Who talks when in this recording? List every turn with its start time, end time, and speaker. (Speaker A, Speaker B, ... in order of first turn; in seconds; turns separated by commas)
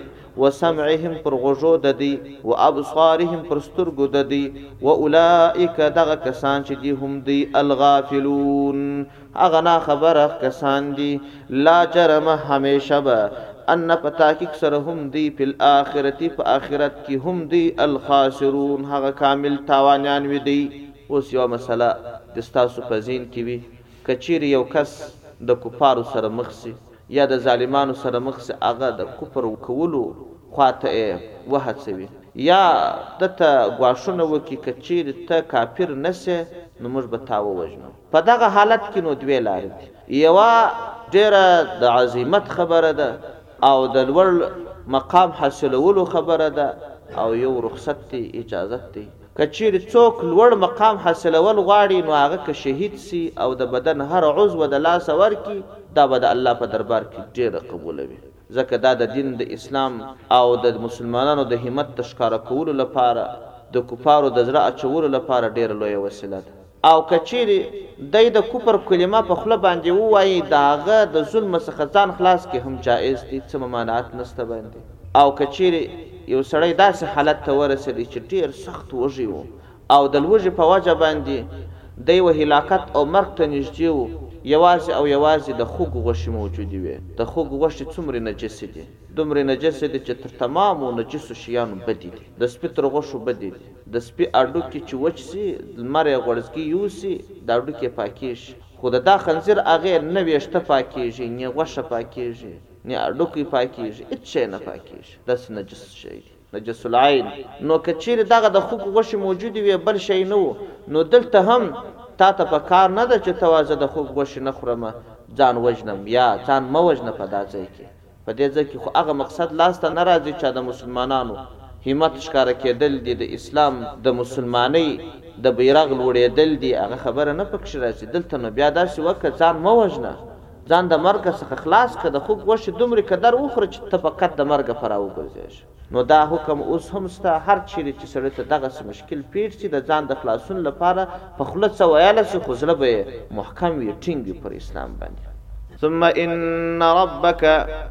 Speaker A: 0.4-145.3, Speaker A: 145.8-147.6